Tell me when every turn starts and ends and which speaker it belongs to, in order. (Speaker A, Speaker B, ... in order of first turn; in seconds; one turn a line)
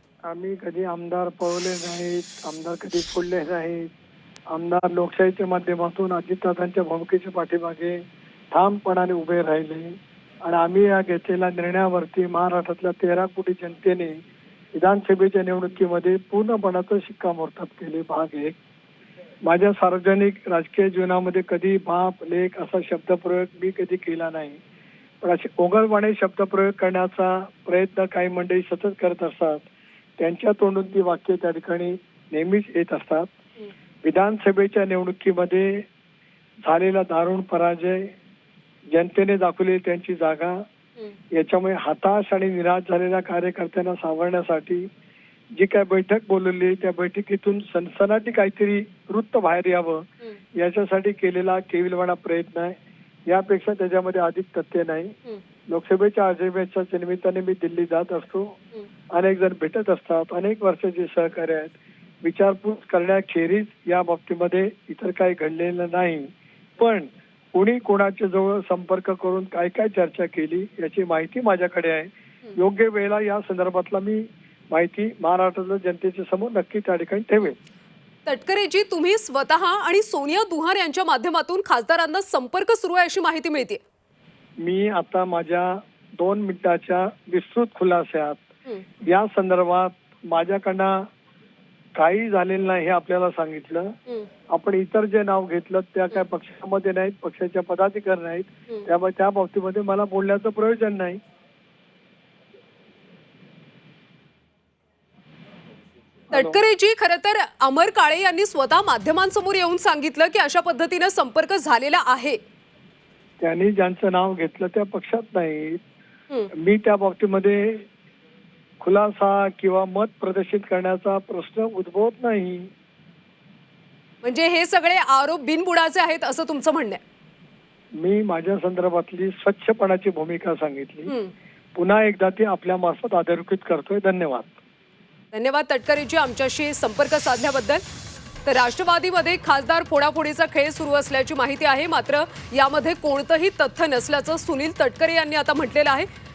Speaker A: 0.3-3.9
Speaker A: 4.5-8.0
Speaker A: 8.5-14.2
Speaker A: 14.7-18.6
Speaker A: 19.4-24.6
Speaker A: 25.2-29.7
Speaker A: 30.2-33.3
Speaker A: 34.0-35.8
Speaker A: 36.6-38.1
Speaker A: 38.9-40.6
Speaker A: 41.3-44.9
Speaker A: 45.5-52.7
Speaker A: 53.3-55.1
Speaker A: 55.7-58.6
Speaker A: 59.1-77.6
Speaker B: 78.2-83.8
Speaker A: 84.6-88.4
Speaker A: 89.0-91.0
Speaker A: 92.0-94.0
Speaker A: 94.5-101.2
Speaker A: 106.3-106.6
Speaker B: 106.3-112.4
Speaker A: 113.4-115.8
Speaker A: 116.5-117.8
Speaker A: 118.8-122.7
Speaker B: 124.2-127.0
Speaker A: 128.0-131.1
Speaker B: 131.1-131.3
Speaker A: 131.8-134.6
Speaker B: 135.3-137.8
Speaker B: 138.4-146.1